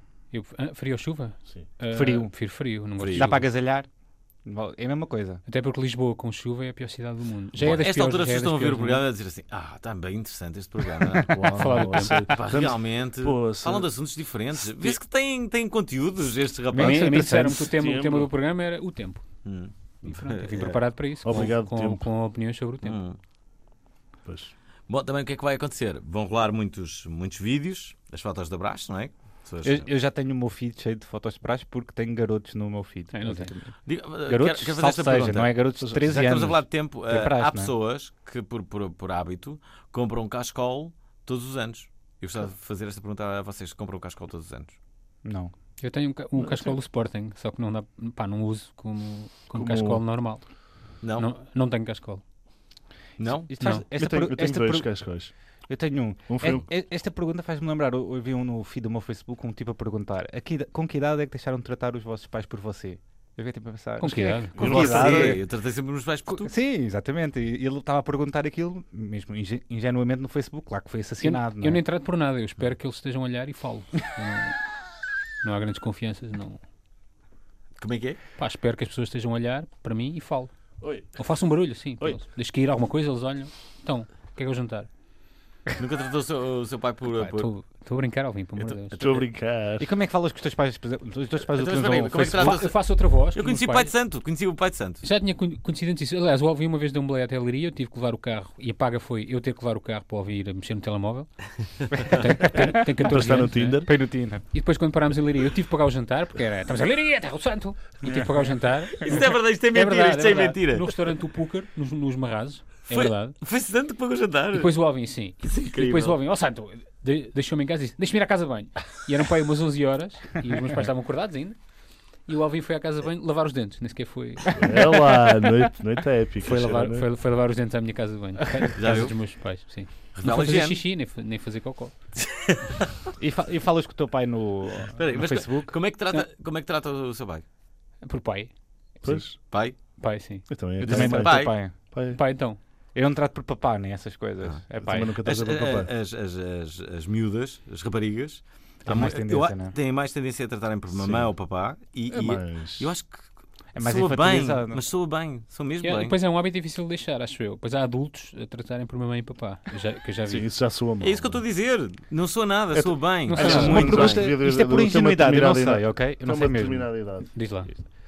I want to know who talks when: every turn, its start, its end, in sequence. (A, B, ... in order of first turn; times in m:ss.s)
0:00.3-0:03.4 A
0:01.9-0:02.3 B
0:03.0-0:03.3 C
0:03.1-0:03.9 B
0:04.4-0:05.4 B
0:05.5-0:09.0 A
0:07.6-0:17.2 C
0:11.2-0:13.9 D
0:11.5-0:12.3 A
0:14.6-0:15.0 D
0:16.7-0:17.7 B
0:16.8-0:19.2 A
0:17.6-0:18.3 D
0:19.4-0:20.8 C
0:20.0-0:23.0 A
0:21.2-0:22.1 D
0:22.8-0:23.2 C
0:24.2-0:24.5 D
0:24.9-0:29.9 C
0:29.6-0:37.7 B
0:33.1-0:33.5 A
0:33.9-0:44.8 C
0:45.2-0:45.5 B
0:45.8-0:50.4 A
0:46.4-0:46.8 D
0:49.5-0:50.0 D
0:51.0-0:51.3 C
0:51.2-0:52.2 A
0:53.2-0:53.5 C
0:53.5-0:54.9 B
0:54.0-0:55.3 D
0:55.7-1:05.4 B
0:56.3-0:56.7 D
1:04.0-1:05.2 A
1:04.5-1:05.4 D
1:04.6-1:06.5 C
1:06.3-1:11.8 B
1:11.2-1:14.6 A
1:15.4-1:16.6 A
1:17.8-1:18.2 C
1:18.4-1:20.5 A
1:20.8-1:21.2 D
1:21.2-1:24.9 A
1:25.8-1:27.5 C
1:27.2-1:29.2 A
1:28.7-1:29.2 C
1:28.9-1:29.9 D
1:29.8-1:32.6 B
1:31.5-1:35.0 C
1:32.1-1:33.9 A
1:35.0-1:43.9 A
1:41.9-1:44.4 B
1:42.9-1:43.9 D
1:44.5-1:53.4 A
1:49.0-1:50.9 C
1:52.9-1:54.8 C
1:54.5-2:01.6 A
1:55.4-1:56.2 C
2:02.2-2:04.8 A
2:04.6-2:07.1 D
2:06.4-2:11.9 A
2:08.4-2:09.0 B
2:08.7-2:09.2 C
2:10.1-2:10.8 C
2:12.2-2:12.9 C
2:13.2-2:15.7 B
2:15.0-2:17.4 C
2:18.0-2:18.5 A
2:19.0-2:19.4 D
2:19.1-2:19.8 C
2:20.0-2:20.5 A
2:20.5-2:22.2 D
2:20.8-2:21.7 B
2:20.9-2:21.6 C
2:22.1-2:22.6 A
2:23.0-2:25.2 B
2:24.8-2:25.9 D
2:25.2-2:36.2 C
2:28.8-2:29.7 B
2:30.9-2:31.3 D
2:32.1-2:32.9 D
2:33.8-2:34.8 B
2:35.8-2:40.4 A
2:40.3-2:41.4 D
2:41.0-2:44.2 C
2:42.7-2:47.3 D
2:43.2-2:44.2 A
2:43.3-2:46.9 B
2:47.4-2:47.7 A